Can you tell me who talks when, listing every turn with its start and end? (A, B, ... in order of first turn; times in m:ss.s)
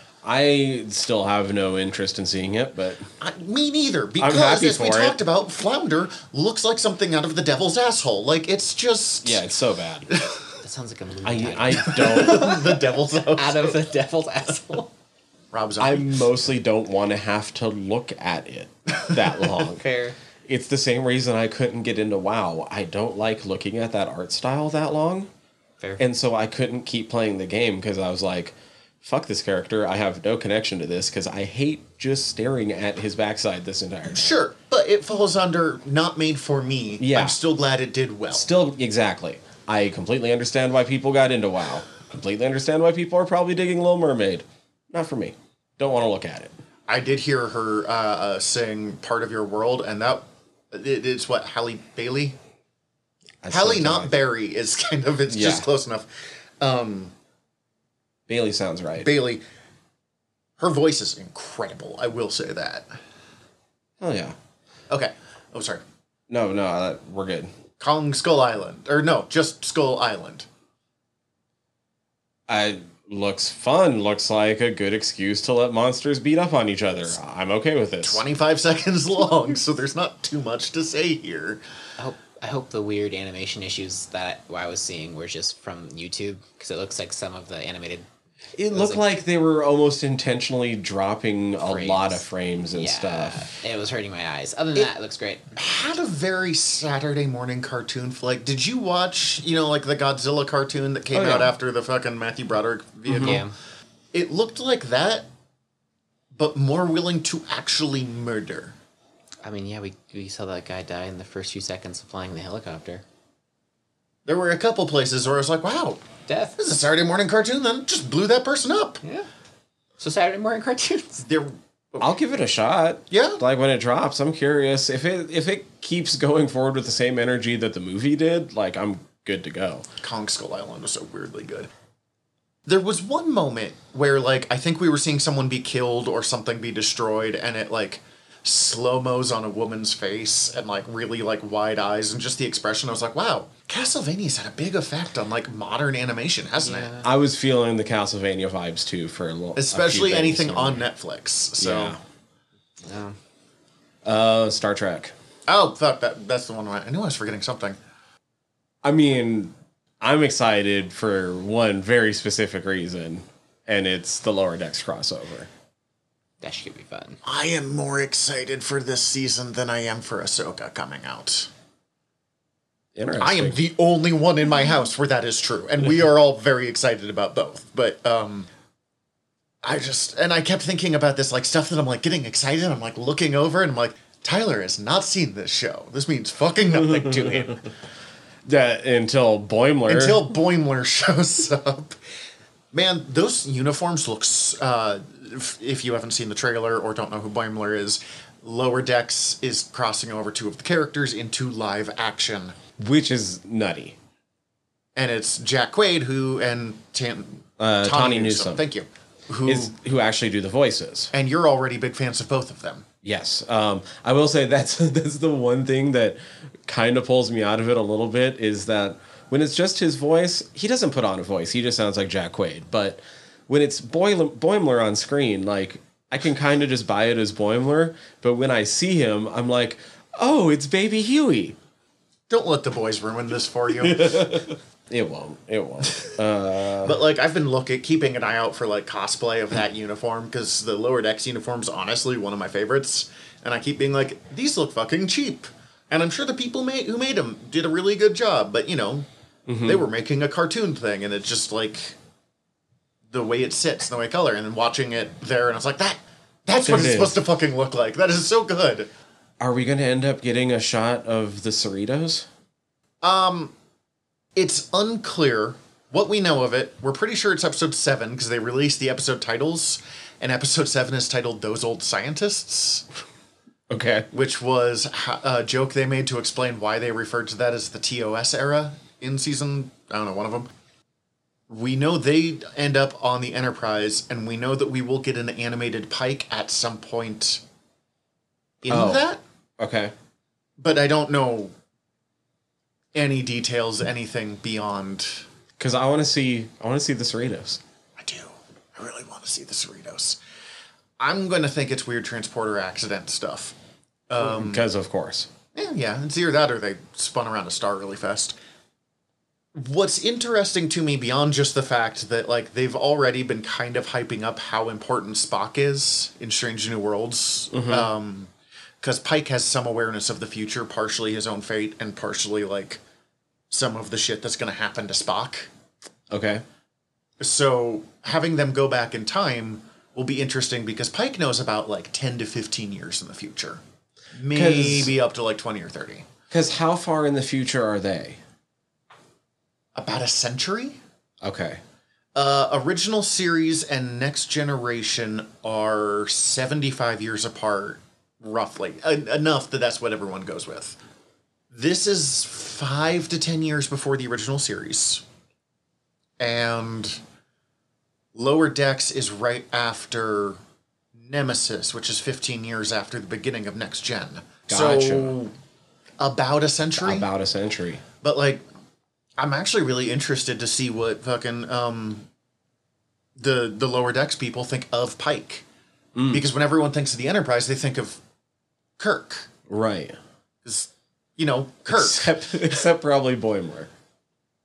0:00.2-0:03.1 A
0:03.2-0:09.4 B
0:04.2-0:05.2 A
0:09.2-0:10.1 A
0:10.1-0:10.4 B
0:10.6-0:14.9 C
0:11.2-0:12.5 A
0:11.7-0:13.8 B
0:15.5-0:16.1 B
0:15.8-0:19.8 A
0:19.7-0:20.2 C
0:20.4-0:25.3 A
0:26.0-0:34.3 A
0:34.0-0:38.5 B
0:37.0-0:37.4 A
0:38.3-0:46.5 A
0:46.9-0:52.4 B
0:53.4-0:54.2 A
0:53.5-0:57.1 B
0:55.3-0:55.7 A
0:58.3-0:59.1 A
0:59.0-0:59.4 B
1:00.6-1:02.9 B
1:04.0-1:04.4 A
1:04.9-1:05.8 B
1:06.3-1:07.5 A
1:07.8-1:10.4 B
1:12.5-1:18.2 A
1:18.0-1:21.6 B
1:22.0-1:28.0 C
1:28.6-1:33.5 A
1:28.7-1:29.1 C
1:31.6-1:35.5 C
1:35.6-1:43.4 B
1:41.1-1:41.5 A
1:43.1-1:43.4 A
1:43.2-1:43.5 C
1:44.1-1:45.2 B
1:46.3-1:48.7 B
1:49.4-1:53.0 C
1:54.2-1:56.0 B
1:56.2-1:56.6 C
1:56.6-1:59.0 B
2:00.0-2:01.2 C
2:01.2-2:02.1 B
2:02.0-2:09.9 A
2:03.1-2:03.4 B
2:10.0-2:11.7 B
2:12.7-2:27.0 B
2:26.6-2:27.1 C
2:27.0-2:30.9 A
2:29.6-2:32.0 B
2:31.6-2:32.0 A
2:32.8-2:33.2 C
2:34.0-2:35.1 A
2:35.5-2:37.8 B
2:38.8-2:45.5 A
2:46.4-2:47.2 C
2:47.2-2:51.5 B
2:53.0-2:53.6 A
2:53.2-2:58.5 B
2:59.6-3:07.6 B
3:06.8-3:07.6 A
3:08.4-3:10.3 A
3:09.9-3:12.0 B
3:12.7-3:22.6 B
3:22.8-3:24.0 A
3:25.0-3:29.7 B
3:27.6-3:28.6 A
3:29.4-3:31.1 A
3:31.1-3:32.8 B
3:33.0-3:51.6 A
3:52.3-3:54.4 B
3:53.8-3:57.0 A
3:56.8-4:09.0 B
4:09.5-4:09.8 A
4:09.6-4:12.0 B
4:13.1-4:18.9 B
4:16.6-4:17.2 A
4:19.4-4:22.3 A
4:23.0-4:23.5 B
4:24.4-4:32.9 B
4:33.7-4:34.1 A
4:34.1-4:40.5 B
4:41.5-4:47.4 B
4:48.6-4:49.2 B
4:48.7-4:49.9 A
4:50.6-4:51.5 B
4:52.9-4:55.2 B
4:55.6-4:57.6 A
4:58.0-5:00.2 B
5:01.0-5:03.5 B
5:04.1-5:04.6 B
5:04.2-5:05.3 A
5:05.5-5:08.3 B
5:09.5-5:18.3 B
5:17.5-5:17.9 A
5:18.8-5:22.8 B
5:23.5-5:25.5 B
5:26.1-5:26.4 A
5:27.2-5:33.6 B
5:34.1-5:36.1 B
5:34.3-5:35.0 A
5:36.3-5:38.2 A
5:39.8-5:40.8 B
5:41.2-5:41.6 A
5:42.1-5:50.8 B
5:51.5-5:55.0 B
5:56.2-5:57.0 B
5:58.1-6:00.4 B
6:01.0-6:05.3 B
6:04.5-6:05.2 A
6:06.0-6:07.1 B
6:06.8-6:07.8 A
6:08.0-6:08.4 B
6:09.2-6:12.1 B
6:13.2-6:15.4 B
6:16.0-6:16.3 A
6:16.1-6:18.0 B
6:18.8-6:19.3 B
6:19.5-6:20.0 A
6:20.4-6:22.7 B
6:21.7-6:23.7 A